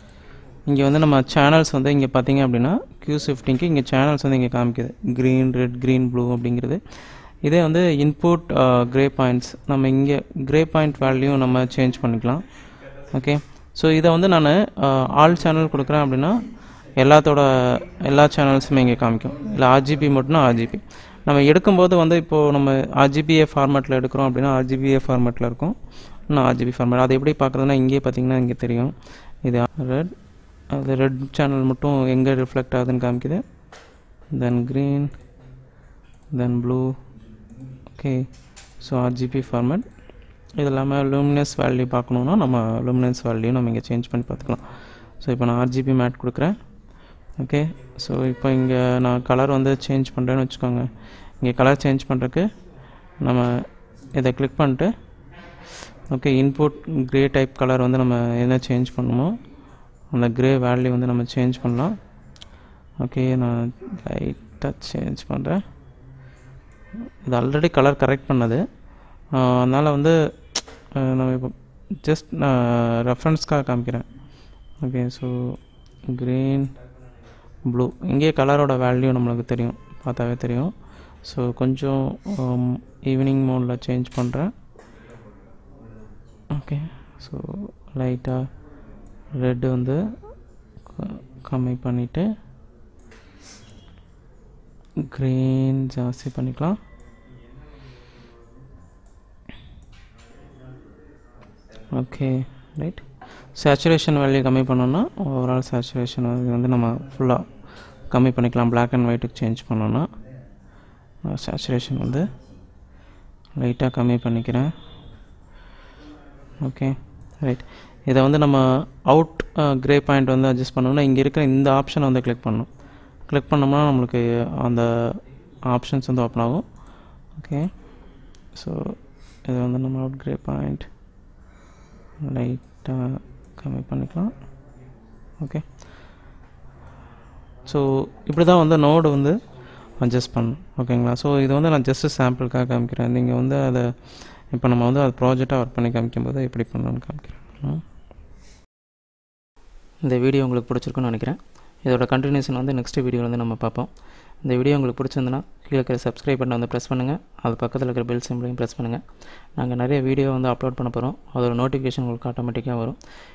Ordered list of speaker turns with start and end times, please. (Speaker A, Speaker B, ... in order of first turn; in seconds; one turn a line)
Speaker A: 0.7-6.8
Speaker A: 7.4-12.4
Speaker A: 13.1-16.4
Speaker A: 17.0-25.8
Speaker A: 26.3-30.1
Speaker A: 30.7-33.4
Speaker A: 34.3-35.1
Speaker A: 36.3-37.0
Speaker A: 37.9-38.3
Speaker A: 38.8-39.9
Speaker A: 40.6-44.7
Speaker A: 45.2-46.6
Speaker A: 47.4-50.9
Speaker A: 51.4-52.5
Speaker A: 53.2-54.9
Speaker A: 56.1-59.4
Speaker A: 60.1-62.0
Speaker A: 63.0-65.6
Speaker A: 67.2-68.6
Speaker A: 69.3-70.2
Speaker A: 70.9-74.1
Speaker A: 74.8-76.7
Speaker A: 77.7-80.7
Speaker A: 81.2-84.5
Speaker A: 86.5-88.5
Speaker A: 89.3-90.0
Speaker A: 90.9-92.3
Speaker A: 95.0-96.8
Speaker A: 101.9-107.4
Speaker A: 108.1-110.1
Speaker A: 111.2-112.3
Speaker A: 113.6-114.7
Speaker A: 116.6-122.7
Speaker A: 123.3-125.2
Speaker A: 125.7-126.7
Speaker A: 127.3-127.7
Speaker A: 128.5-130.9
Speaker A: 132.2-134.3
Speaker A: 137.7-139.4
Speaker A: 140.0-147.8
Speaker A: 150.0-153.9
Speaker A: 154.4-163.0